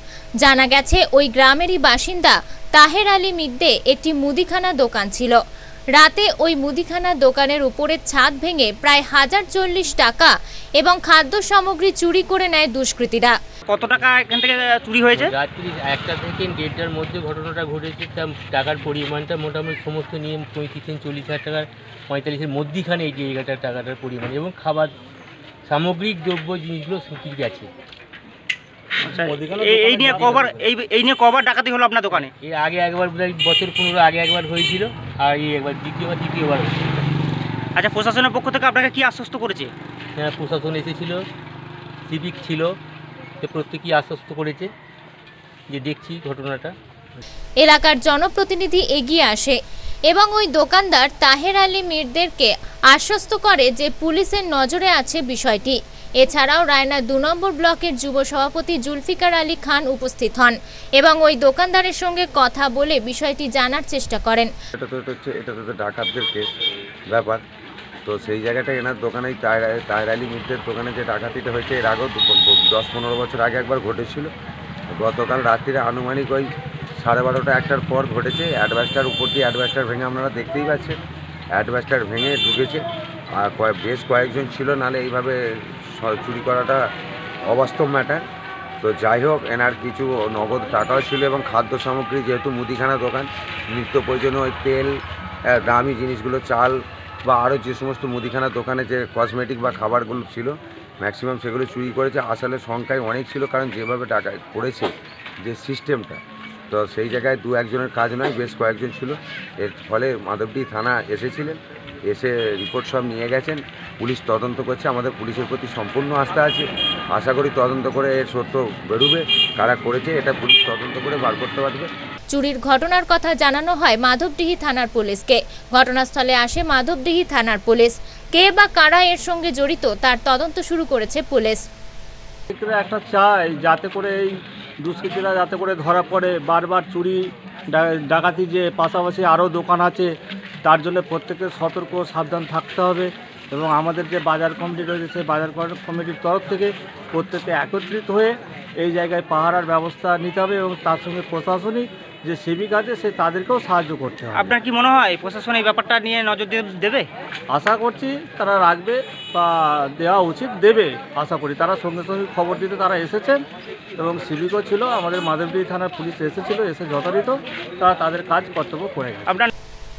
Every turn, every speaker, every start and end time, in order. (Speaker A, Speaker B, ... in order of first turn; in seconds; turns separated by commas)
Speaker A: 0.4-5.4, Speaker A: 5.9-13.3, Speaker B: 13.7-15.3, Speaker C: 15.1-24.9, Speaker C: 25.6-27.7, Speaker B: 29.0-32.3, Speaker C: 29.2-30.6, Speaker D: 29.8-30.2, Speaker C: 32.1-37.0, Speaker B: 37.8-39.7, Speaker C: 40.2-41.2, Speaker C: 42.1-42.7, Speaker C: 43.4-44.7, Speaker C: 45.7-46.7, Speaker A: 47.6-49.6, Speaker A: 50.1-64.5, Speaker E: 64.7-66.5, Speaker E: 67.1-67.4, Speaker E: 68.0-74.3, Speaker E: 74.9-81.0, Speaker E: 81.5-86.8, Speaker E: 87.5-88.2, Speaker E: 88.8-95.0, Speaker E: 95.5-121.9, Speaker A: 122.3-131.6, Speaker D: 132.5-134.3, Speaker D: 134.8-137.2, Speaker D: 137.7-140.1, Speaker D: 140.6-154.5, Speaker B: 154.3-157.1, Speaker D: 157.5-163.4, Speaker D: 164.0-169.3, Speaker B: 169.2-169.5